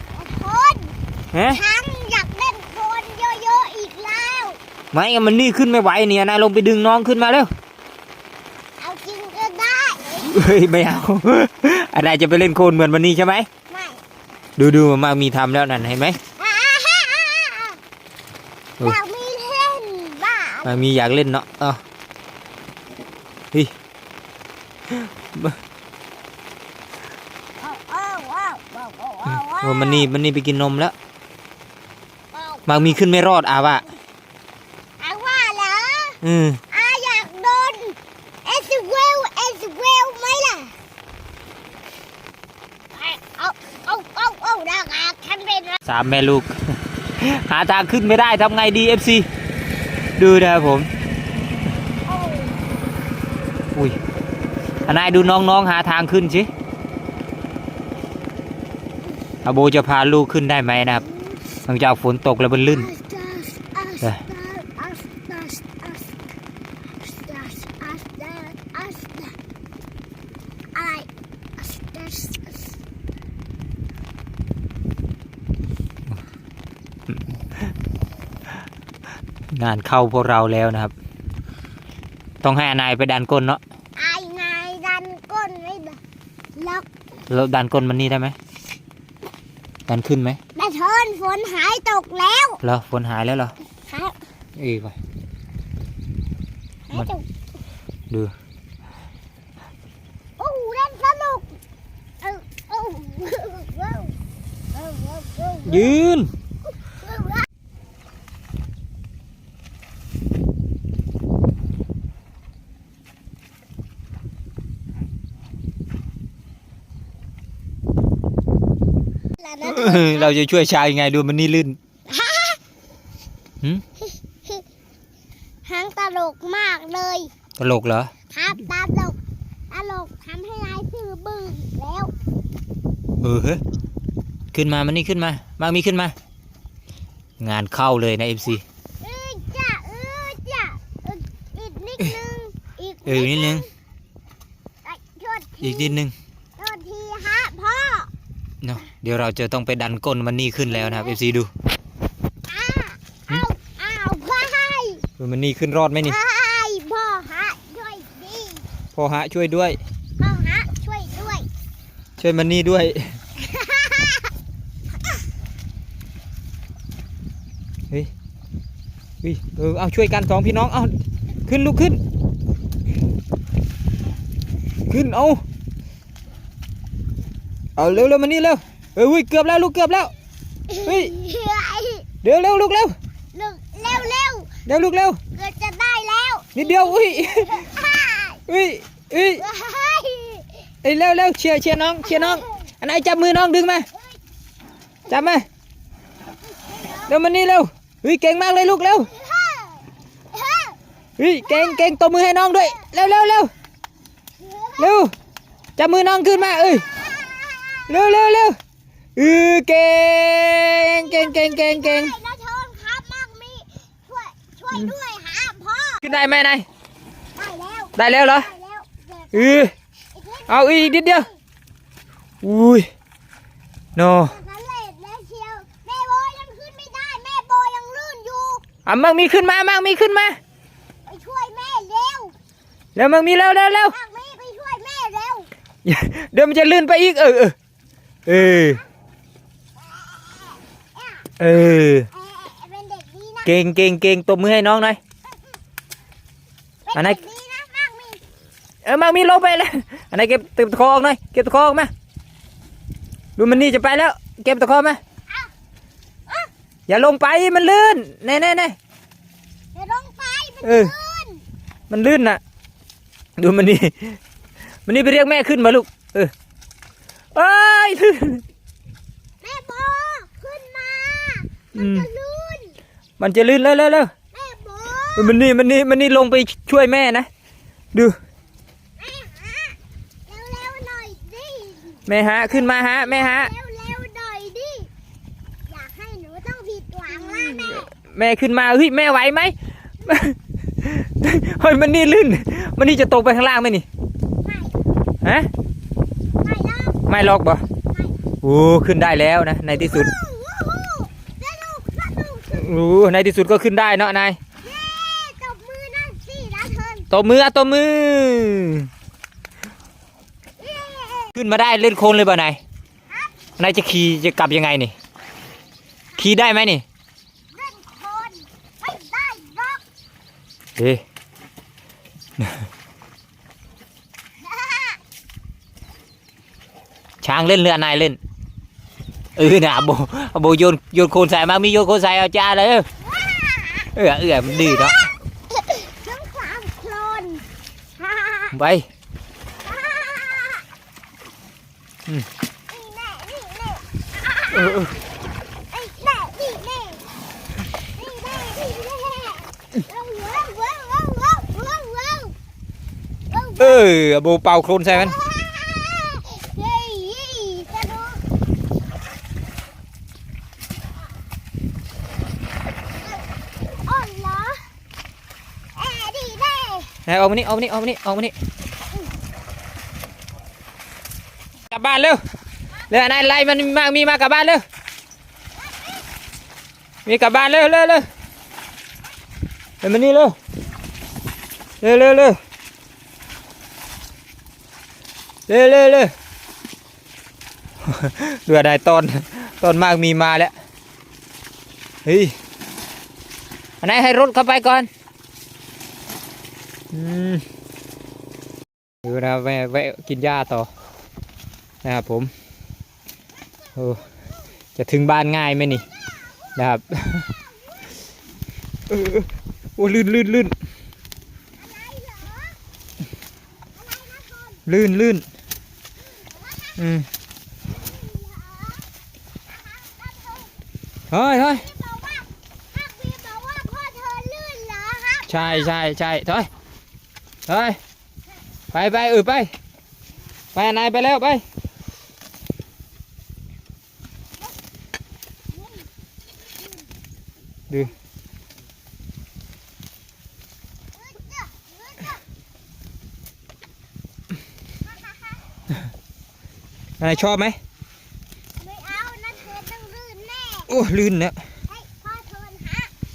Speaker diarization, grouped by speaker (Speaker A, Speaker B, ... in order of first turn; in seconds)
Speaker A: 0.1-0.9, 1.5-4.6, 8.8-10.3, 13.7-14.0, 16.4-17.8, 18.8-20.8, 27.6-30.1, 32.3-33.0, 35.0-36.2, 36.7-40.8, 42.9-45.8, 52.1-52.6, 61.1-61.4, 62.7-66.2, 67.0-69.4, 70.8-72.7, 84.0-86.0, 86.6-86.9, 90.5-92.6, 93.8-94.2, 96.9-97.2, 100.4-101.6, 102.2-104.1, 104.7-106.0, 106.8-107.5, 119.4-120.3, 122.1-122.6, 124.0-124.6, 125.6-127.3, 128.3-129.2, 129.7-132.1, 139.0-143.7, 144.8-146.0, 146.6-148.1, 150.7-151.2, 152.5-155.1, 156.0-158.7, 160.2-161.5, 163.4-164.3, 180.7-182.1, 183.3-184.5, 185.3-188.4, 189.2-190.6, 192.0-192.5, 193.9-194.2, 196.4-197.1, 199.0-200.8, 201.4-202.0, 202.6-203.2, 204.4-205.0, 206.3-208.2, 210.7-216.2, 217.3-221.4, 224.2-228.6, 231.1-232.3, 233.9-235.5, 239.8-241.3, 242.1-243.5, 245.2-245.6, 246.8-248.2, 259.7-261.4, 269.4-272.8, 274.3-275.4, 279.0-284.9, 285.7-287.9, 294.4-294.8, 296.4-297.1, 299.7-302.7, 304.6-307.1, 310.6-311.4, 313.1-313.4, 317.5-319.8, 324.4-325.0, 333.0-333.9, 334.5-337.4, 338.0-338.6, 339.6-340.7, 342.7-344.9, 345.7-347.1, 347.9-352.4, 353.3-353.9, 354.9-358.2, 363.8-364.7, 365.8-366.9, 375.6-376.1, 411.6-412.6, 413.7-414.6, 416.0-416.8, 417.6-418.9, 419.5-420.6, 421.5-425.7, 435.5-435.9, 440.9-442.2, 444.8-445.4, 448.6-450.7, 451.7-452.9
Speaker B: 1.3-1.6, 4.9-7.5, 10.2-13.5, 14.6-16.2, 20.6-21.8, 24.9-25.6, 29.6-30.9, 32.7-33.8, 36.2-36.6, 45.9-46.6, 47.1-49.3, 50.2-50.9, 54.9-56.5, 59.4-61.0, 61.6-62.9, 79.5-80.9, 82.4-83.6, 87.3-88.3, 89.9-90.4, 92.6-93.5, 94.6-94.9, 105.7-106.3, 119.6-121.8, 127.6-128.1, 133.2-133.6, 134.5-136.1, 137.4-138.6, 143.1-143.7, 145.6-146.1, 148.6-151.5, 155.2-156.2, 158.9-159.8, 162.2-163.2, 169.2-170.9, 171.5-172.0, 174.9-175.4, 177.8-180.1, 180.8-181.1, 182.2-182.9, 184.7-185.2, 186.5-187.7, 188.5-189.4, 190.8-193.9, 195.1-195.4, 197.1-199.1, 201.2-203.5, 204.8-205.1, 205.8-206.8, 207.9-208.6, 209.2-212.1, 216.0-216.7, 217.9-218.5, 219.3-219.7, 220.5-221.3, 222.4-222.9, 223.9-224.4, 228.8-230.4, 232.9-233.9, 235.8-237.5, 238.2-238.8, 241.4-242.1, 243.4-245.0, 246.9-247.2, 248.8-251.9, 253.4-255.0, 256.9-258.8, 260.6-260.9, 261.9-262.4, 263.4-264.2, 264.9-266.3, 267.3-268.4, 271.8-272.1, 273.2-274.1, 275.1-277.3, 282.1-283.5, 287.3-293.9, 295.2-295.5, 297.1-297.6, 298.4-300.1, 302.5-304.4, 307.1-308.9, 311.3-312.6, 313.6-314.9, 316.2-316.8, 320.8-321.0, 327.2-328.2, 329.4-332.9, 333.9-335.0, 338.5-338.9, 344.5-344.9, 353.6-355.1, 367.1-368.3, 371.7-372.2, 372.9-374.6, 377.1-378.1, 379.8-380.4, 381.8-382.4, 385.5-386.1, 387.8-390.5, 392.1-392.3, 393.8-394.9, 396.9-397.4, 399.0-400.7, 401.8-402.3, 403.8-404.0, 404.8-405.8, 406.6-407.3, 408.9-410.6, 414.6-415.2, 416.8-417.1, 421.1-421.6, 425.3-426.5, 427.5-427.8, 428.7-429.5, 430.6-431.4, 447.0-447.6, 450.7-451.4